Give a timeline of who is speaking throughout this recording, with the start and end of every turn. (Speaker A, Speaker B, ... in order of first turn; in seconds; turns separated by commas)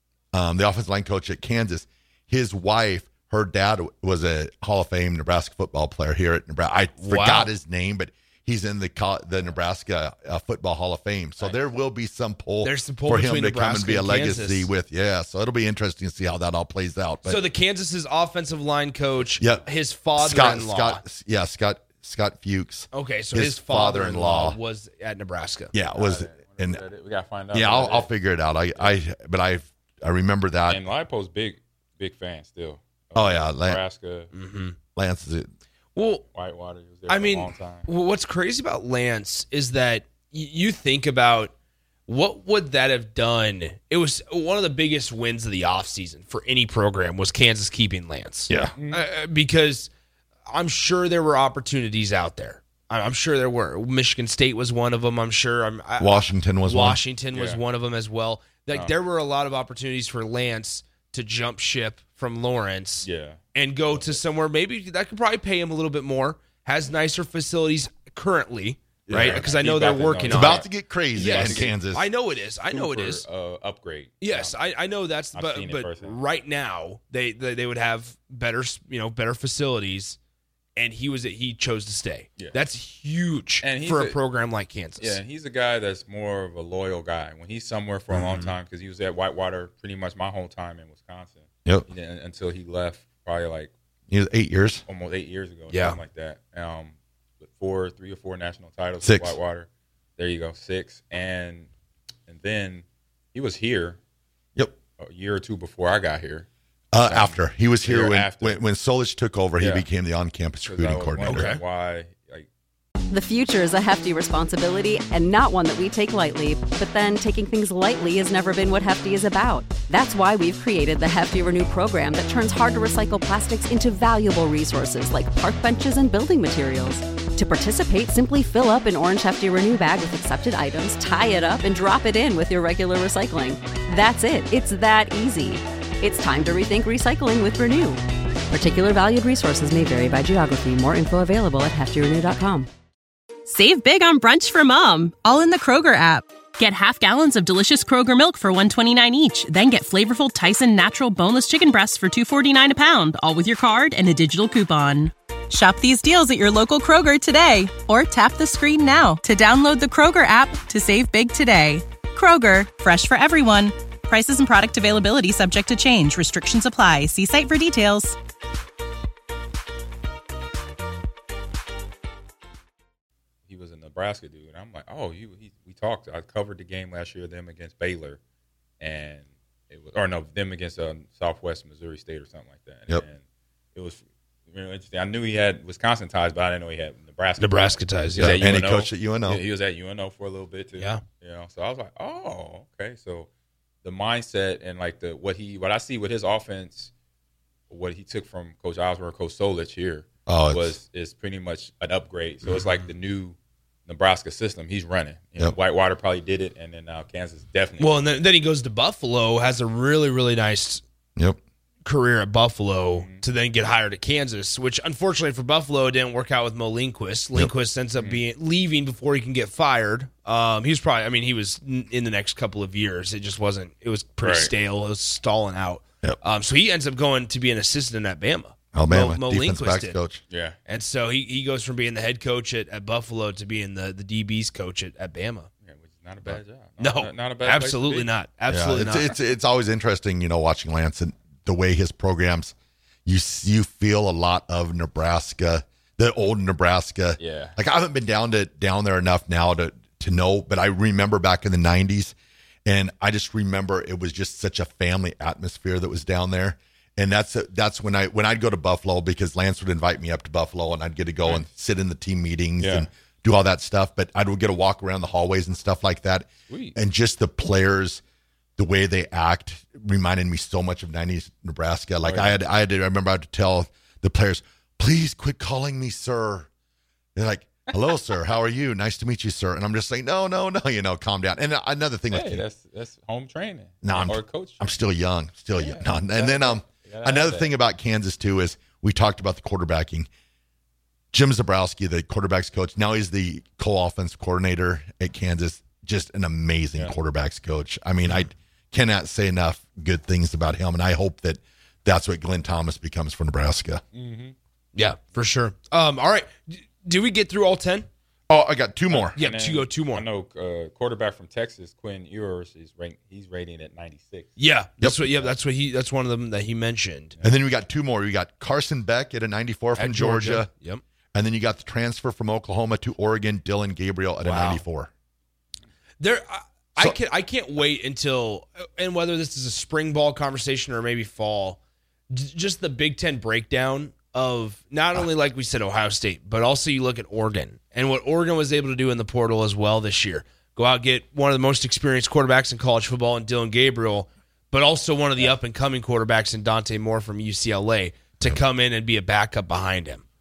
Speaker A: 0.3-17.4, Speaker B: 7.0-7.5, Speaker B: 12.6-14.7, Speaker B: 17.2-21.0, Speaker A: 19.4-24.6, Speaker B: 22.9-25.7, Speaker A: 25.7-26.8, Speaker C: 25.9-28.9, Speaker A: 27.5-30.8, Speaker C: 30.6-34.3, Speaker A: 33.1-33.8, Speaker B: 34.3-34.8, Speaker A: 35.0-35.5, Speaker B: 35.9-36.2, Speaker C: 36.3-37.9, Speaker B: 37.1-41.5, Speaker B: 42.1-49.9, Speaker A: 48.5-48.7, Speaker C: 48.8-49.1, Speaker B: 50.5-73.2, Speaker A: 56.0-57.0, Speaker C: 57.3-57.6, Speaker C: 63.0-63.4, Speaker A: 69.1-69.4, Speaker C: 69.1-71.8, Speaker A: 70.3-72.0, Speaker C: 72.7-74.6, Speaker B: 74.2-80.2, Speaker C: 75.3-76.2, Speaker B: 80.8-85.2, Speaker C: 83.6-84.2, Speaker C: 85.0-93.7, Speaker B: 88.1-88.5, Speaker A: 94.1-94.8, Speaker C: 94.8-101.7, Speaker B: 95.7-96.0, Speaker A: 99.0-99.4, Speaker C: 102.2-104.0, Speaker C: 105.0-106.5, Speaker A: 106.9-111.6, Speaker C: 107.0-108.6, Speaker C: 109.6-109.8, Speaker C: 110.6-112.5, Speaker B: 111.2-111.6, Speaker D: 113.1-138.0, Speaker D: 138.5-142.7, Speaker E: 143.5-168.2, Speaker C: 173.5-178.2, Speaker C: 178.8-183.2, Speaker C: 183.7-193.3, Speaker B: 187.4-188.4, Speaker A: 188.2-189.4, Speaker B: 190.8-191.0, Speaker C: 193.8-196.9, Speaker C: 197.7-208.1, Speaker A: 200.2-200.8, Speaker B: 207.8-210.8, Speaker B: 211.8-230.0, Speaker C: 212.9-213.2, Speaker C: 217.9-218.2, Speaker C: 224.2-224.5, Speaker A: 228.7-230.2, Speaker C: 230.3-230.6, Speaker B: 230.7-235.5, Speaker C: 235.6-238.1, Speaker B: 236.2-239.1, Speaker A: 238.5-242.5, Speaker A: 243.1-268.0, Speaker C: 247.2-247.6, Speaker C: 262.6-262.9, Speaker C: 266.5-266.8, Speaker A: 268.6-276.5, Speaker C: 272.0-272.4, Speaker A: 277.1-282.4, Speaker C: 282.1-284.8, Speaker A: 283.8-290.1, Speaker C: 285.6-287.5, Speaker A: 291.1-303.8, Speaker C: 303.9-304.3, Speaker B: 304.7-307.9, Speaker A: 308.3-309.1, Speaker C: 308.9-314.3, Speaker B: 309.1-310.1, Speaker B: 314.4-317.2, Speaker A: 314.8-315.3, Speaker A: 317.2-320.5, Speaker B: 319.7-320.8, Speaker A: 321.1-324.9, Speaker B: 324.2-324.6, Speaker B: 326.0-331.6, Speaker B: 332.1-350.0